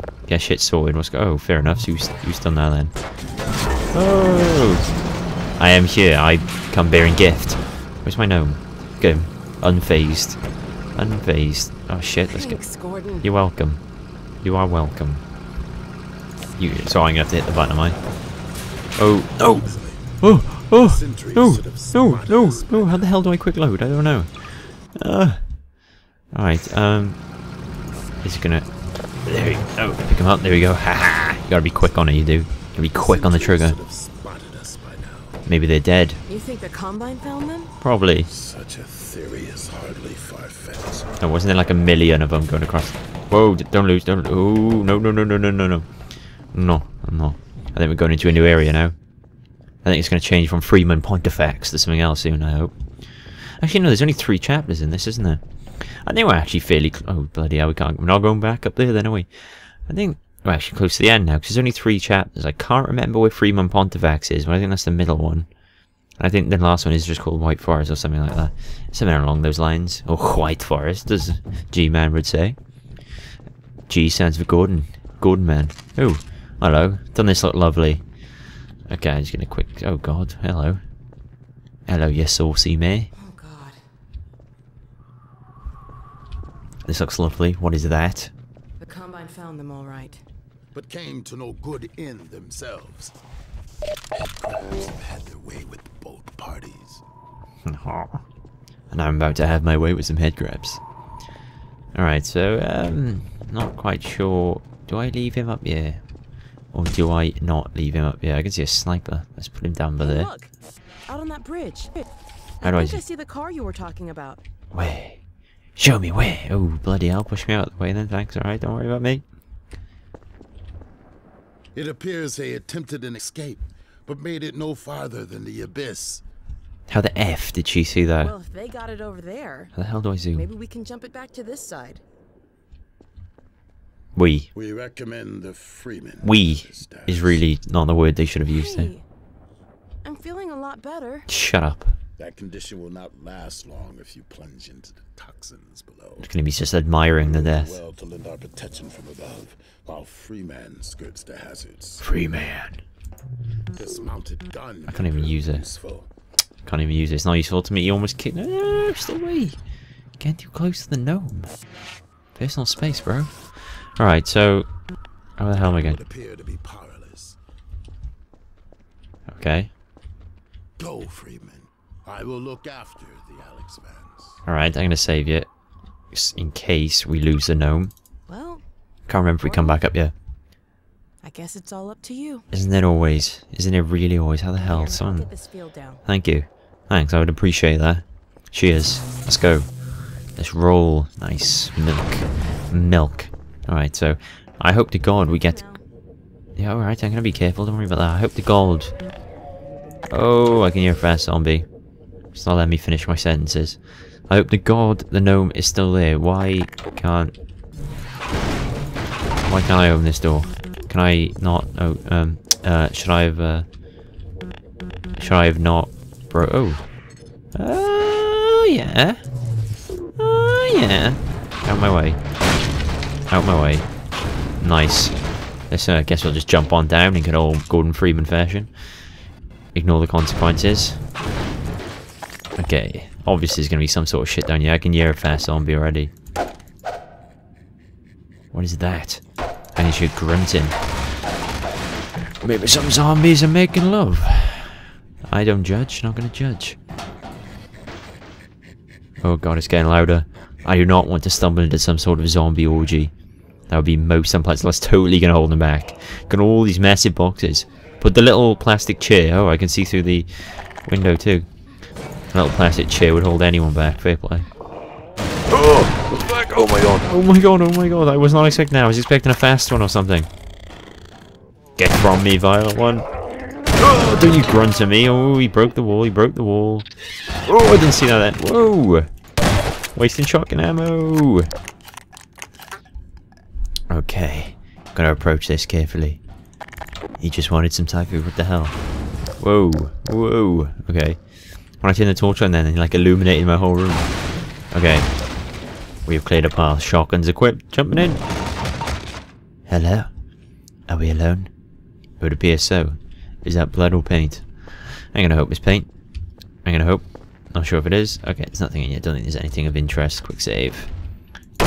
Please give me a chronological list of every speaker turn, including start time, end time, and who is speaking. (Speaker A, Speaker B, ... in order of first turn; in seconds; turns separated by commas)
Speaker A: 0.3-2.9, Speaker A: 3.9-4.8, Speaker A: 5.6-10.4, Speaker A: 10.9-12.6, Speaker B: 12.3-13.3, Speaker A: 13.2-13.8, Speaker A: 14.4-15.2, Speaker A: 16.6-18.0, Speaker A: 19.0-19.7, Speaker C: 19.5-20.1, Speaker A: 20.2-24.3, Speaker C: 20.7-23.2, Speaker A: 24.9-25.4, Speaker A: 26.3-27.2, Speaker A: 28.2-28.6, Speaker A: 29.2-33.8, Speaker C: 32.9-35.4, Speaker A: 35.5-36.2, Speaker B: 36.3-37.7, Speaker A: 37.8-38.3, Speaker C: 38.3-41.1, Speaker A: 41.2-45.9, Speaker A: 46.5-48.9, Speaker C: 48.3-48.6, Speaker A: 49.8-52.7, Speaker A: 53.6-59.3, Speaker A: 59.9-65.5, Speaker A: 66.2-72.6, Speaker A: 73.9-78.0, Speaker A: 78.9-80.8, Speaker A: 81.9-83.1, Speaker B: 83.2-83.8, Speaker A: 86.8-88.3, Speaker B: 88.8-90.2, Speaker C: 90.7-93.2, Speaker C: 94.1-97.0, Speaker A: 97.6-98.2, Speaker A: 98.9-100.8, Speaker A: 101.9-106.0, Speaker A: 106.7-110.3, Speaker B: 110.0-110.5, Speaker B: 111.1-112.1, Speaker B: 112.6-114.4, Speaker A: 112.6-113.0, Speaker A: 114.7-115.2, Speaker A: 115.8-119.2, Speaker C: 121.7-126.2, Speaker A: 126.9-128.3, Speaker B: 128.2-129.7, Speaker A: 129.8-130.4, Speaker B: 130.3-132.0, Speaker A: 134.2-134.5, Speaker C: 134.5-137.4, Speaker A: 136.2-138.9, Speaker B: 138.4-139.0, Speaker B: 140.0-141.3, Speaker A: 141.3-141.9, Speaker C: 142.2-146.3, Speaker A: 146.2-147.8, Speaker C: 147.1-152.1, Speaker A: 152.0-152.8, Speaker C: 153.7-156.1, Speaker A: 154.9-155.6, Speaker A: 156.6-159.6, Speaker A: 160.2-161.5, Speaker A: 162.3-164.7, Speaker A: 165.4-166.0, Speaker C: 165.6-167.4, Speaker A: 169.3-169.7, Speaker C: 170.8-174.4, Speaker A: 174.4-175.5, Speaker A: 176.1-177.9, Speaker B: 178.3-178.6, Speaker A: 179.1-180.1, Speaker B: 179.4-179.8, Speaker B: 181.2-182.4, Speaker A: 182.5-185.3, Speaker B: 184.6-186.0, Speaker A: 186.1-189.7, Speaker A: 190.4-195.6, Speaker B: 195.2-195.8, Speaker A: 196.6-198.9, Speaker A: 200.1-201.7, Speaker A: 202.3-207.3, Speaker A: 209.5-213.7, Speaker A: 215.2-216.8, Speaker A: 217.5-219.2, Speaker A: 220.2-222.2, Speaker A: 223.3-223.9, Speaker A: 224.6-225.1, Speaker A: 225.7-228.7, Speaker A: 229.7-231.0, Speaker A: 232.6-236.1, Speaker A: 238.5-239.2, Speaker A: 239.8-240.8, Speaker A: 242.4-246.8, Speaker A: 249.2-253.1, Speaker A: 253.7-261.5, Speaker A: 262.3-264.5, Speaker A: 265.5-270.3, Speaker A: 271.8-273.1, Speaker A: 273.8-276.9, Speaker A: 277.5-279.1, Speaker A: 279.9-281.5, Speaker A: 283.9-286.2, Speaker A: 287.2-288.8, Speaker A: 289.4-291.2, Speaker A: 291.8-294.1, Speaker A: 294.7-295.1, Speaker A: 296.1-298.2, Speaker A: 299.7-300.1, Speaker A: 300.9-301.5, Speaker A: 302.2-305.9, Speaker A: 306.6-310.9